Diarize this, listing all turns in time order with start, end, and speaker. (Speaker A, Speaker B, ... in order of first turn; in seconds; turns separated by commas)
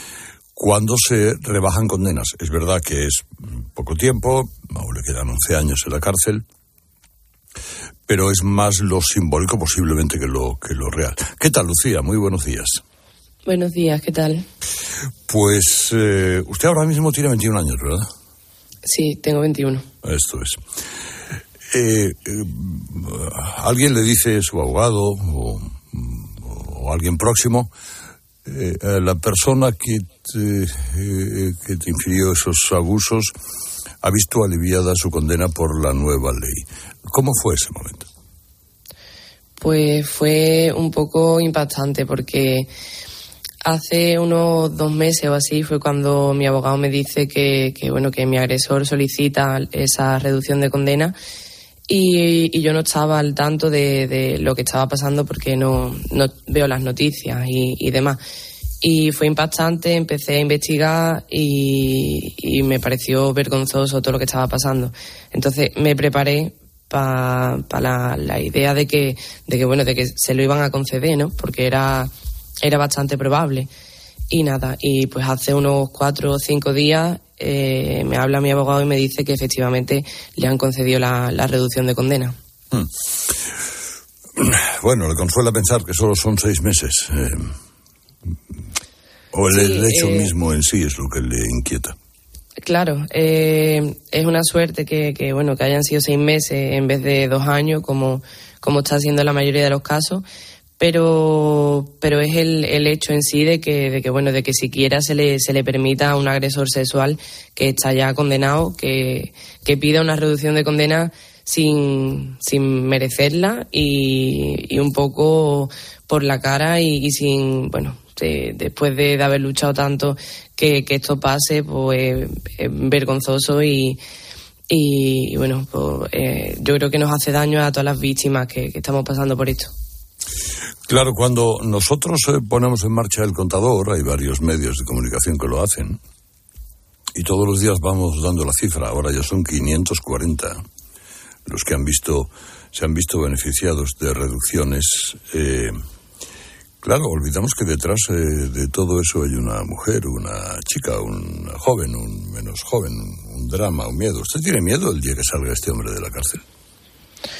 Speaker A: 0.6-6.4, Speaker A: 8.1-12.8, Speaker B: 13.4-14.4, Speaker A: 15.3-18.1, Speaker B: 18.9-19.8, Speaker A: 20.0-20.6, Speaker A: 21.7-27.7, Speaker A: 28.4-33.3, Speaker A: 34.0-38.0, Speaker B: 39.6-42.7, Speaker B: 43.6-51.1, Speaker B: 51.9-58.2, Speaker B: 58.8-72.1, Speaker B: 72.6-73.7, Speaker B: 74.3-82.3, Speaker A: 84.4-87.5, Speaker A: 89.3-91.9, Speaker B: 89.5-90.3, Speaker B: 92.6-100.2, Speaker B: 100.8-124.0, Speaker B: 124.7-129.7, Speaker A: 130.9-136.0, Speaker A: 137.2-140.6, Speaker A: 141.5-145.8, Speaker A: 146.8-156.4